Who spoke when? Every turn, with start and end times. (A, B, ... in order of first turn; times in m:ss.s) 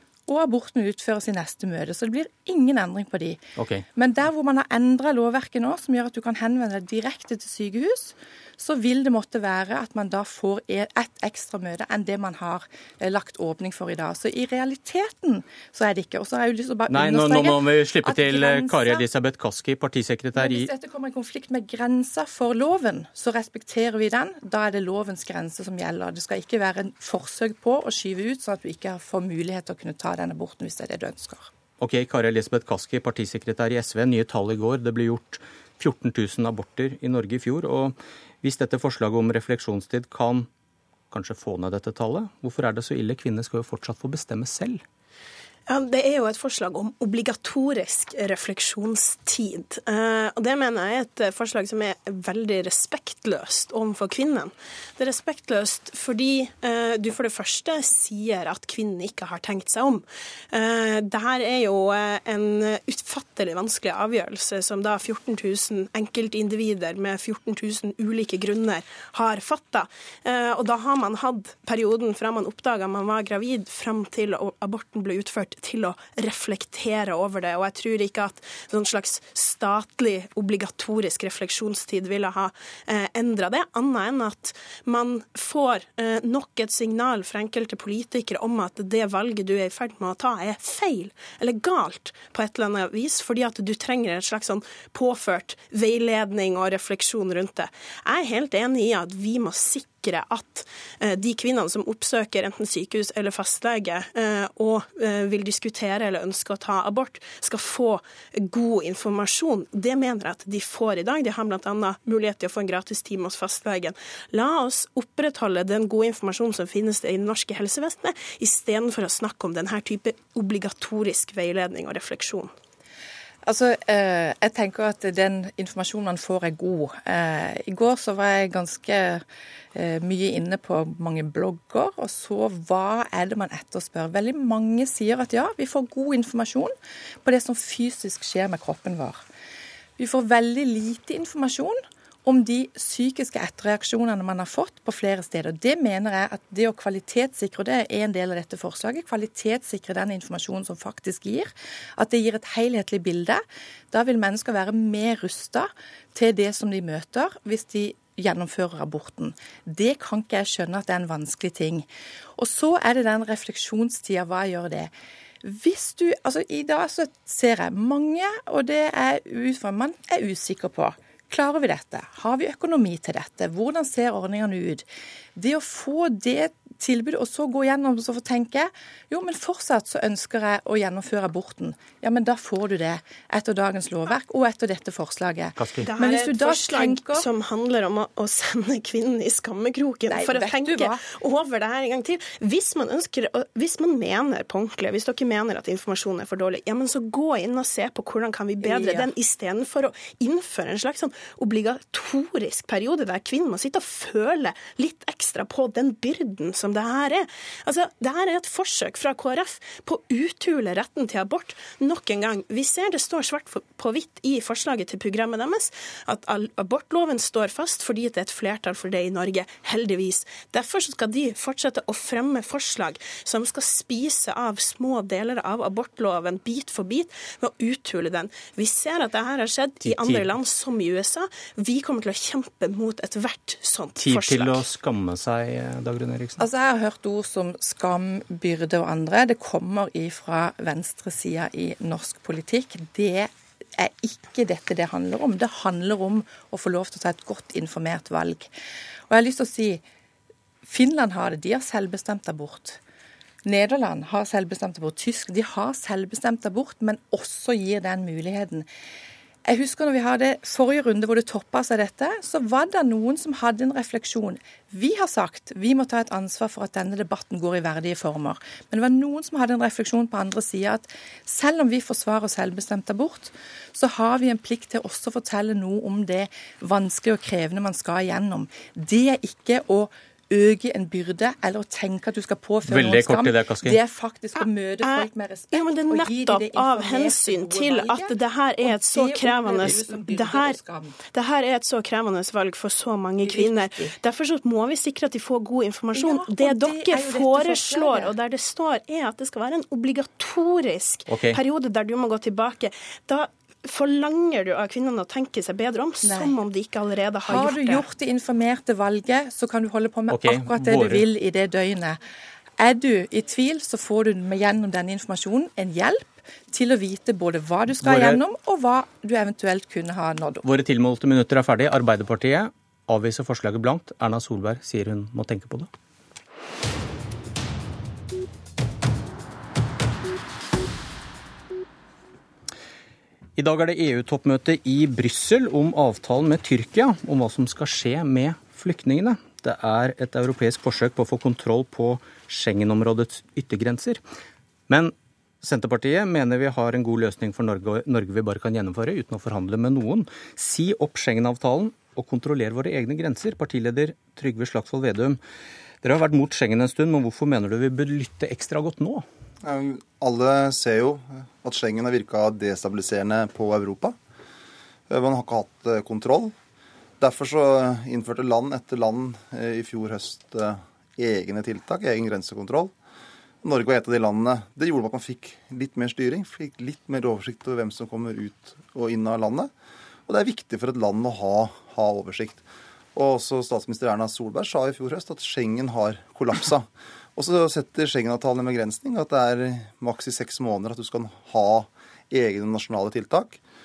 0:00.3-0:03.4 A
0:03.6-0:03.8 B
0:03.9-0:19.0 A
0:16.9-0:20.7 B
0:20.4-0:31.5 A
0:31.8-0:40.5 B
0:41.1-0:44.8 B
0:45.7-2:02.5 C
2:03.4-2:09.2 A
2:09.7-2:16.7 A
2:17.2-2:19.2 A
2:20.0-2:44.9 A
2:45.4-2:54.8 A
2:55.4-3:07.3 A
3:05.6-3:05.9 B
3:05.8-3:54.6 C
3:10.1-3:11.0 A
3:18.6-3:19.1 A
3:49.8-3:50.3 B
3:54.0-3:56.4 B
3:56.4-4:08.5 A
4:09.1-4:09.8 A
4:10.6-4:12.8 A
4:13.4-4:18.7 A
4:19.4-4:51.0 A
4:42.7-4:43.8 B
4:44.8-4:50.6 C
4:51.1-5:07.8 C
4:53.2-4:53.9 A
4:55.9-4:58.1 A
5:01.1-5:01.4 B
5:06.0-5:06.3 A
5:07.2-5:12.0 A
5:10.1-5:11.0 B
5:12.6-5:20.4 A
5:17.8-5:18.2 B
5:20.4-5:25.7 B
5:33.4-5:44.0 B
5:44.7-5:55.2 B
5:55.8-5:59.0 B
5:59.4-6:03.9 D
6:04.9-6:06.3 D
6:07.0-6:12.7 D
6:13.4-6:19.5 D
6:20.1-6:22.4 D
6:22.9-6:33.4 D